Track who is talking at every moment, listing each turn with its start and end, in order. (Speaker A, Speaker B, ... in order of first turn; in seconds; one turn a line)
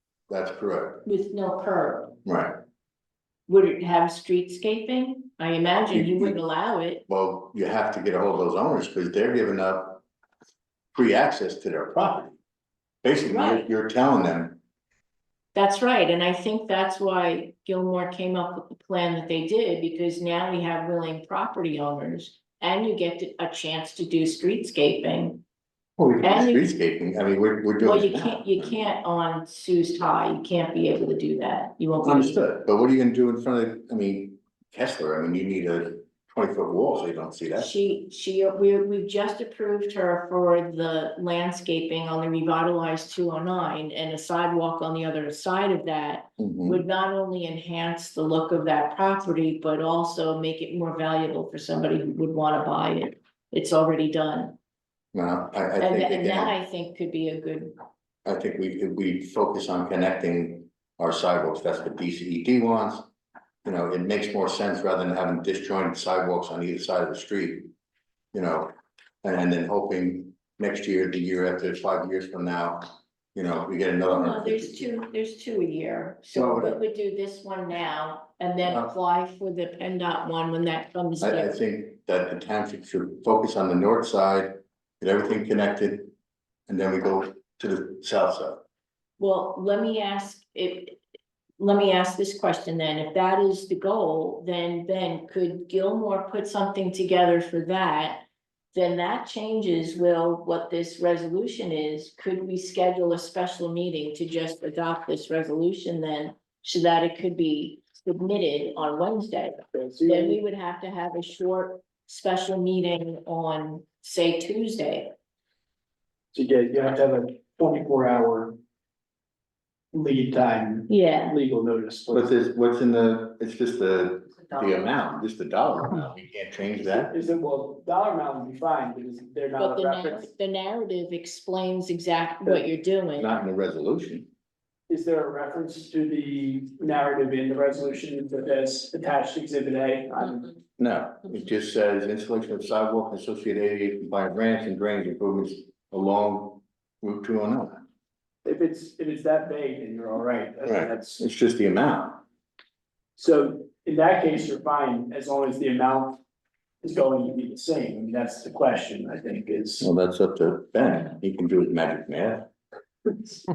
Speaker A: 0.3-1.0
Speaker B: 1.1-2.2
Speaker A: 2.2-2.6
Speaker B: 3.5-7.0
Speaker A: 5.9-6.4
Speaker A: 7.1-10.0
Speaker A: 10.9-12.4
Speaker A: 13.0-14.6
Speaker B: 13.3-13.7
Speaker B: 15.5-25.4
Speaker A: 26.0-28.8
Speaker B: 26.2-26.7
Speaker B: 27.8-32.4
Speaker A: 32.0-37.7
Speaker B: 37.6-54.6
Speaker A: 46.4-46.8
Speaker A: 55.1-56.5
Speaker B: 55.8-57.8
Speaker A: 58.2-63.1
Speaker A: 63.6-67.7
Speaker A: 68.3-68.7
Speaker A: 69.2-74.8
Speaker B: 74.1-81.6
Speaker A: 76.3-76.8
Speaker A: 81.2-86.1
Speaker A: 86.7-88.7
Speaker B: 89.2-91.0
Speaker B: 91.6-115.1
Speaker C: 109.7-110.4
Speaker C: 116.3-118.6
Speaker C: 119.9-122.3
Speaker B: 120.9-121.4
Speaker A: 122.1-127.1
Speaker C: 126.8-130.3
Speaker B: 129.6-133.4
Speaker A: 133.2-134.3
Speaker C: 134.9-140.5
Speaker A: 140.8-147.8
Speaker C: 148.4-151.2
Speaker A: 150.7-152.2
Speaker C: 153.2-156.2
Speaker C: 156.8-159.9
Speaker A: 159.8-162.5